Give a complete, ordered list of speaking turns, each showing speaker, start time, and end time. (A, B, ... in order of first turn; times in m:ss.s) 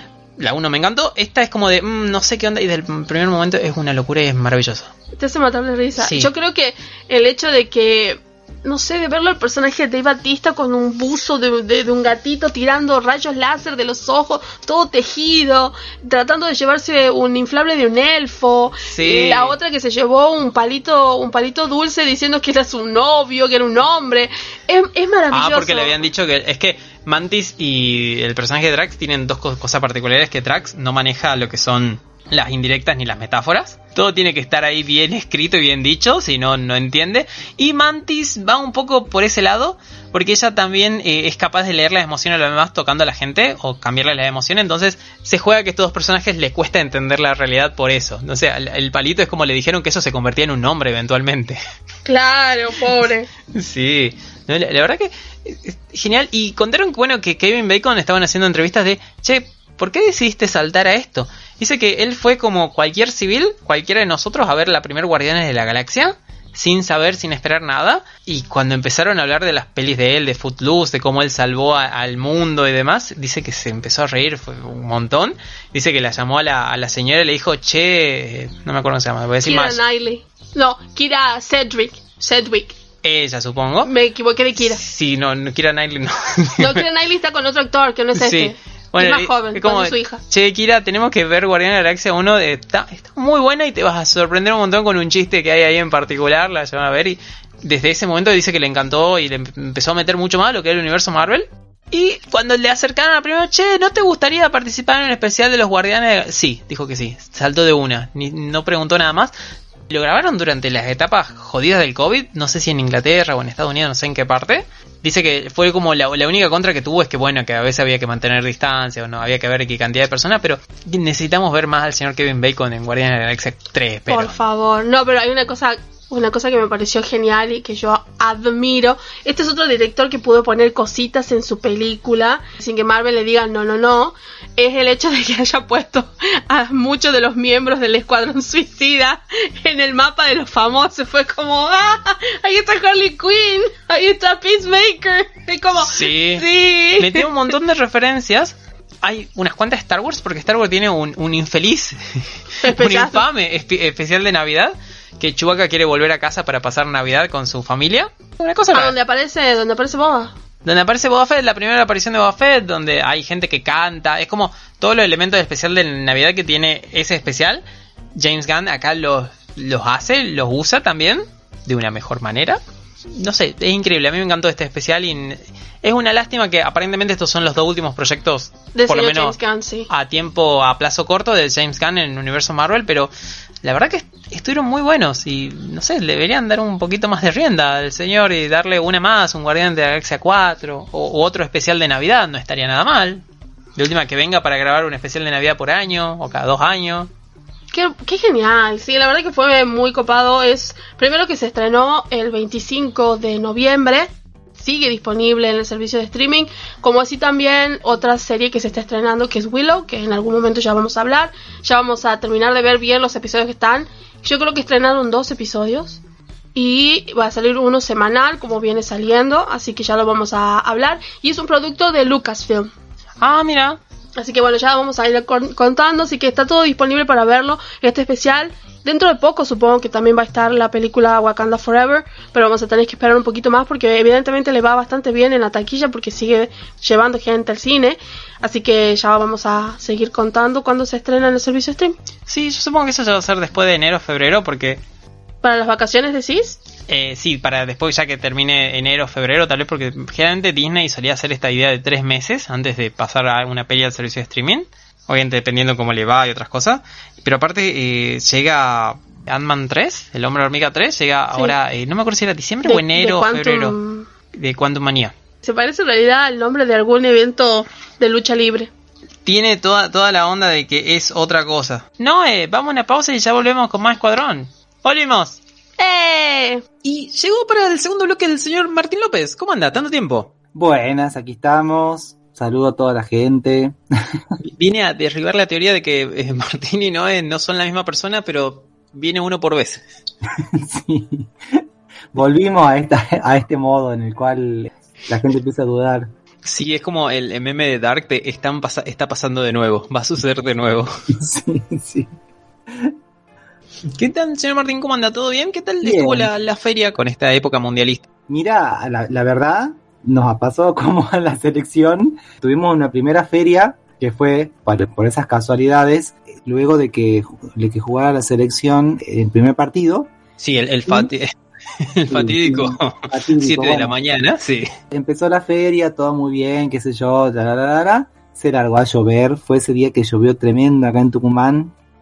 0:00.4-0:04.9 A
0:05.2-0:25.9 B
0:06.0-0:06.3 A
0:18.8-0:19.6 A
0:25.3-0:51.6 A
0:52.0-0:53.3 B
0:53.5-1:19.8 A
1:19.4-1:22.8 B
1:23.0-1:23.9 A
1:23.8-1:24.8 B
1:24.6-1:26.8 A
1:26.6-1:30.2 B
1:28.2-1:49.3 A
1:49.9-2:04.4 A
2:04.1-2:27.3 B
2:25.7-2:26.4 A
2:27.0-2:39.0 A
2:32.6-2:33.2 B
2:38.7-2:40.3 B
2:40.6-2:47.6 A
2:48.1-2:59.4 A
2:58.7-2:59.9 B
2:59.9-3:03.1 A
3:03.6-3:17.1 A
3:17.7-3:36.0 B
3:36.5-3:42.7 B
3:43.2-3:43.8 A
3:44.2-4:02.0 B
4:02.3-4:04.8 A
4:05.4-4:06.6 B
4:06.9-4:23.8 A
4:22.6-4:24.1 B
4:24.3-4:25.1 A
4:25.4-4:28.7 B
4:29.2-4:35.4 A
4:35.8-4:36.6 B
4:36.8-4:40.3 A
4:40.5-4:44.2 C
4:44.4-4:49.8 A
4:50.3-4:51.6 C
4:52.1-4:56.1 C
4:56.4-5:00.9 A
5:01.1-5:02.1 C
5:04.0-5:08.0 A
5:05.8-5:06.3 C
5:08.3-5:20.1 C
5:20.4-5:24.7 A
5:22.1-5:24.0 C
5:24.9-5:31.7 C